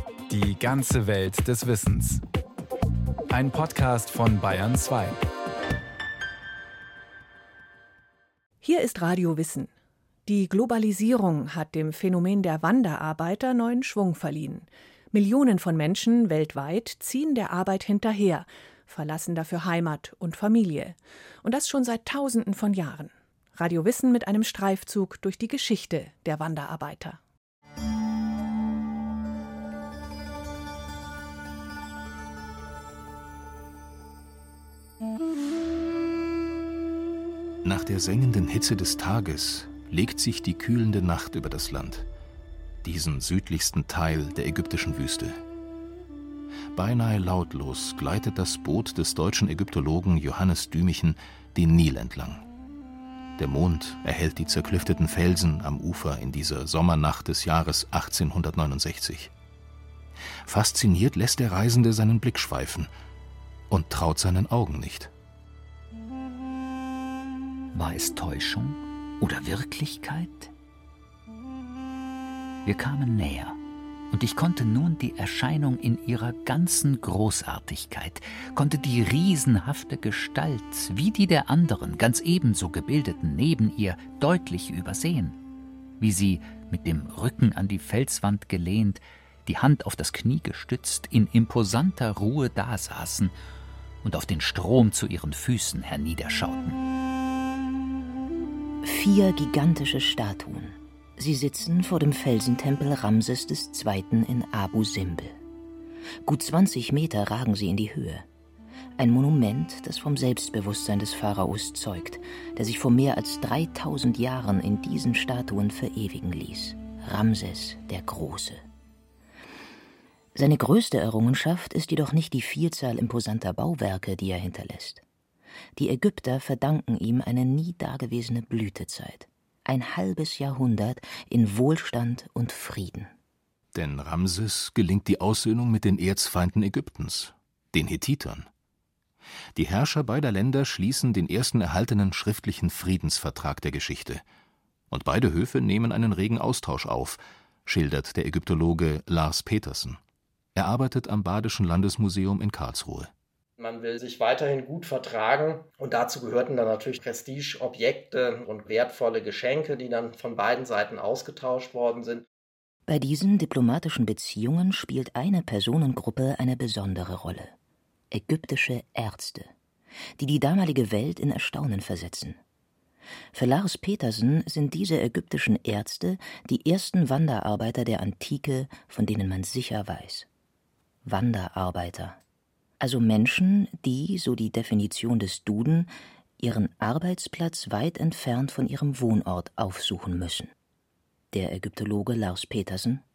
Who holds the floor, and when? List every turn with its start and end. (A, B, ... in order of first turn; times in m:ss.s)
0:00.3-0:02.2 A
0:03.3-0:05.2 A
0:08.6-0:09.7 B
0:10.3-0:27.2 B
0:37.6-0:42.1 C
0:42.8-0:45.4 C
0:46.8-0:52.4 C
0:53.4-0:59.3 C
1:00.4-1:02.9 C
1:03.7-1:05.1 C
1:07.7-1:10.5 D
1:12.6-1:13.6 D
1:14.1-1:25.4 D
1:26.0-1:33.3 D
1:34.0-1:36.8 D
1:38.8-1:45.4 E
1:46.2-1:48.2 E
1:49.0-1:58.6 E
2:00.4-2:05.0 E
2:05.8-2:13.1 E
2:13.7-2:18.5 C
2:19.6-2:24.2 C
2:24.9-2:30.0 C
2:30.6-2:33.1 C
2:33.6-2:42.2 F
2:42.9-2:47.5 E
2:48.1-2:49.5 E
2:50.2-2:52.4 E
2:53.3-3:00.3 E
3:01.0-3:02.2 E
3:02.8-3:10.5 E
3:11.3-3:13.0 E